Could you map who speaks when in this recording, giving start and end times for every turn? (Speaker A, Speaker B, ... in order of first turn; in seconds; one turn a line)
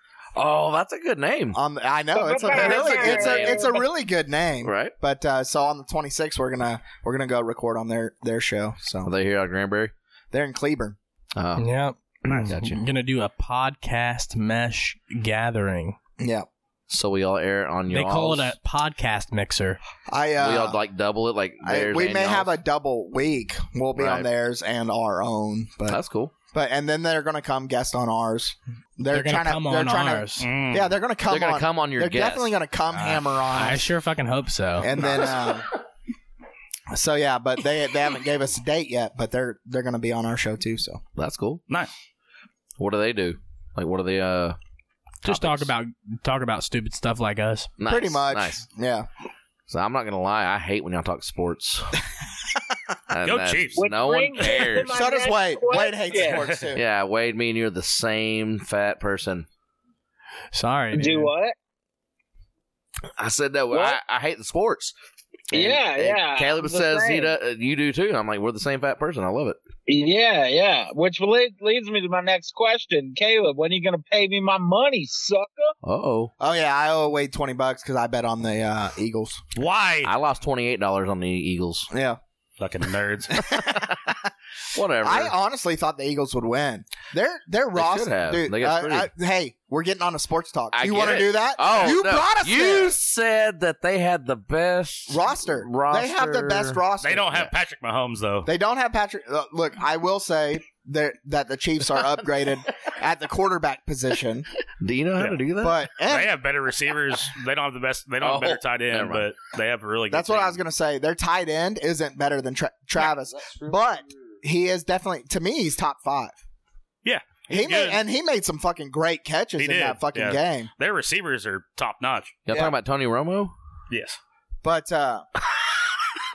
Speaker A: 0.3-1.6
Speaker B: 1.5-9.1
Speaker C: 2.1-3.8
Speaker A: 2.5-3.6
Speaker A: 4.6-4.9
Speaker A: 9.0-9.9
Speaker B: 10.3-11.0
Speaker A: 11.3-11.7
Speaker D: 11.6-16.0
Speaker A: 12.2-12.8
Speaker B: 16.2-16.5
Speaker A: 16.9-18.6
Speaker D: 17.9-19.8
Speaker B: 20.1-20.8
Speaker A: 20.4-22.5
Speaker B: 21.6-26.0
Speaker A: 23.9-24.3
Speaker A: 25.9-26.3
Speaker B: 26.5-33.8
Speaker D: 29.1-30.5
Speaker E: 30.4-30.9
Speaker A: 31.3-32.5
Speaker D: 32.9-34.9
Speaker B: 34.8-35.7
Speaker A: 35.0-35.5
Speaker B: 36.9-41.0
Speaker A: 41.1-41.6
Speaker A: 42.8-44.6
Speaker A: 45.2-45.7
Speaker D: 45.2-47.7
Speaker A: 47.8-48.6
Speaker B: 47.9-49.1
Speaker A: 49.7-52.0
Speaker A: 53.1-55.0
Speaker E: 53.2-53.9
Speaker C: 53.8-56.5
Speaker B: 54.9-56.8
Speaker E: 56.2-56.7
Speaker A: 56.7-59.5
Speaker D: 60.5-61.3
Speaker C: 60.9-61.5
Speaker A: 63.2-64.9
Speaker C: 63.7-64.0
Speaker A: 65.5-69.6
Speaker C: 65.5-67.3
Speaker C: 69.9-75.7
Speaker A: 75.8-76.3
Speaker B: 76.4-79.4
Speaker E: 79.5-80.1
Speaker A: 80.0-81.9
Speaker B: 81.9-82.2
Speaker E: 82.6-83.3
Speaker B: 83.4-84.3
Speaker A: 84.7-85.3
Speaker B: 85.0-93.0
Speaker A: 87.7-89.1
Speaker A: 90.7-96.8
Speaker B: 95.1-97.5
Speaker E: 97.0-98.5
Speaker B: 98.4-104.5
Speaker A: 104.8-105.8
Speaker B: 105.6-106.3
Speaker E: 106.1-110.6
Speaker A: 108.2-109.3
Speaker B: 110.1-116.3
Speaker E: 117.0-118.0
Speaker B: 117.5-120.7
Speaker E: 119.6-122.4
Speaker A: 122.5-123.5
Speaker E: 123.9-124.2
Speaker B: 124.6-125.2